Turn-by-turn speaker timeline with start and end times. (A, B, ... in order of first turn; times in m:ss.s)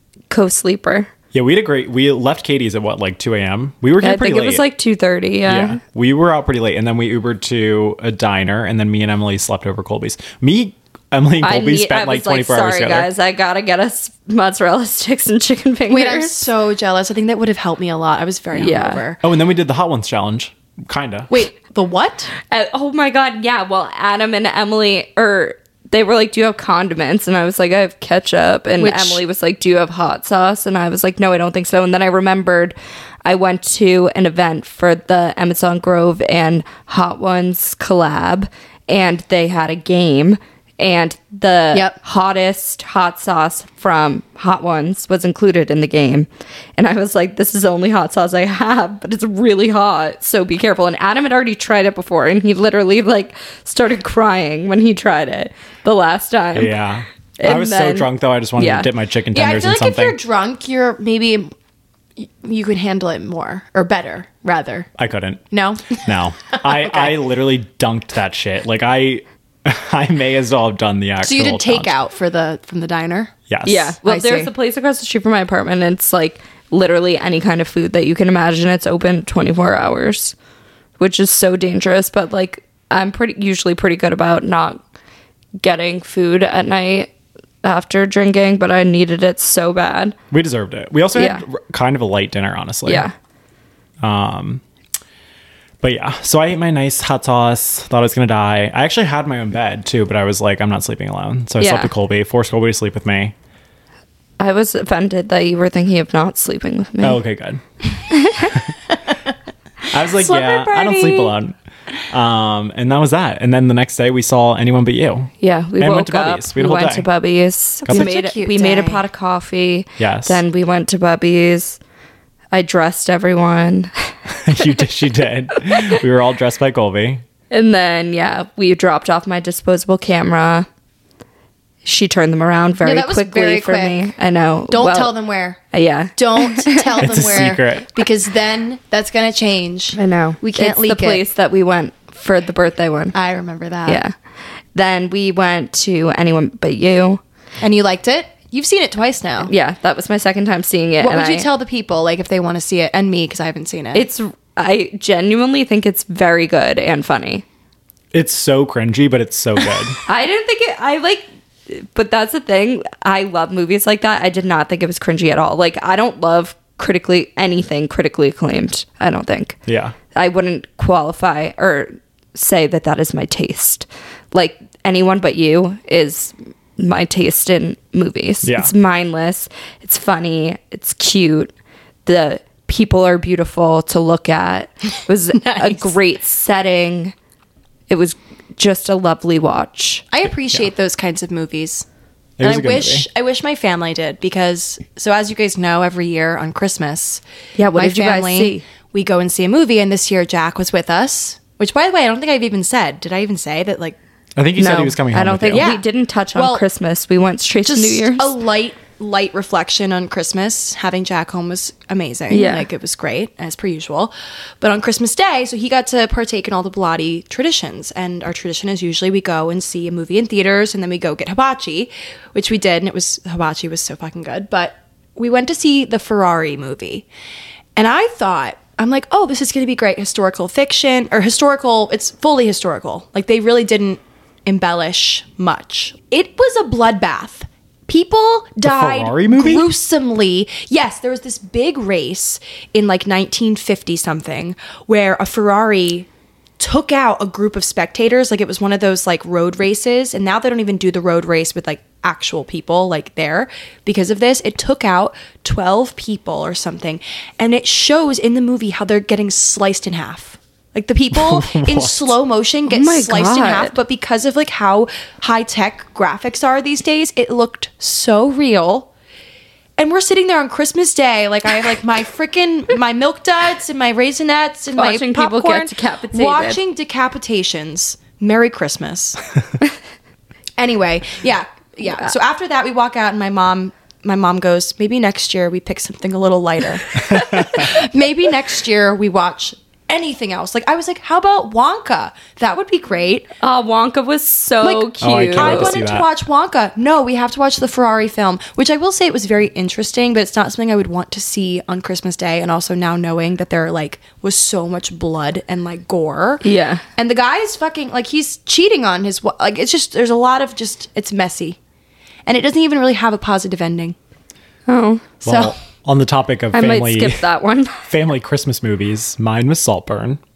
0:00.3-0:01.1 A
0:01.3-0:04.6 B
0:04.0-0:05.8 A
0:05.5-0:13.1 B
0:11.4-0:16.5 A
0:15.9-0:19.2 C
0:18.5-0:19.0 A
0:19.2-0:21.3 B
0:21.3-0:22.3 C
0:22.5-0:56.8 A
0:28.8-0:29.2 C
0:41.7-0:42.0 C
0:56.5-1:00.2 B
0:57.4-0:58.9 A
0:59.3-1:01.5 C
1:02.2-1:04.9 C
1:05.0-1:11.9 B
1:05.5-1:07.1 C
1:11.2-1:13.3 C
1:13.5-1:14.0 B
1:13.6-1:20.4 A
1:14.0-1:14.5 C
1:21.0-1:24.8 A
1:25.6-1:27.1 A
1:27.6-1:30.2 A
1:30.3-1:33.1 B
1:31.2-1:31.4 A
1:32.9-1:33.1 A
1:34.0-1:34.6 B
1:35.8-1:43.4 B
1:41.6-1:41.9 A
1:44.4-1:47.2 A
1:47.0-1:47.6 B
1:48.1-1:48.6 A
1:49.9-1:51.6 B
1:50.1-1:51.3 C
1:52.1-1:57.1 B
1:55.4-2:01.8 A
1:57.8-1:59.0 C
2:00.0-2:00.4 B
2:02.5-2:04.7 A
2:04.3-2:07.2 B
2:07.5-2:10.7 A
2:11.8-2:15.1 A
2:12.8-2:14.0 C
2:14.7-2:15.6 C
2:15.7-2:17.5 A
2:16.2-2:21.2 C
2:17.0-2:17.9 B
2:20.0-2:23.2 A
2:23.1-2:24.0 C
2:23.9-2:24.1 A
2:24.7-2:27.2 A
2:27.6-2:29.5 C
2:29.4-2:31.5 A
2:31.0-2:34.0 C
2:33.9-2:37.4 A
2:38.1-2:40.0 B
2:40.0-2:49.6 A
2:49.7-2:50.0 B
2:50.1-3:01.5 A
2:58.4-2:58.7 B
3:02.1-3:07.1 A
3:05.4-3:05.9 C
3:07.9-3:10.0 A
3:10.1-3:11.9 C
3:12.4-3:13.1 B
3:12.4-3:17.2 C
3:17.6-3:18.6 A
3:17.7-3:24.0 C
3:24.4-3:25.7 B
3:24.6-3:28.3 A
3:25.5-3:26.6 C
3:27.6-3:47.1 C
3:32.3-3:32.7 A
3:47.8-4:06.1 C
3:58.6-3:59.7 B
4:06.6-4:28.9 C
4:21.1-4:22.2 B
4:22.7-4:23.8 A
4:29.8-4:39.2 C
4:34.8-4:36.6 A
4:40.6-4:53.3 C
4:47.0-4:47.7 B
4:53.4-4:55.8 A
4:54.6-5:06.4 C
4:55.0-4:56.1 B
5:06.4-5:06.8 A
5:07.0-5:11.6 C
5:12.3-5:14.0 C
5:14.7-5:15.1 A
5:15.2-5:15.6 C
5:15.2-5:17.2 B
5:16.5-5:17.9 A
5:17.9-5:20.2 B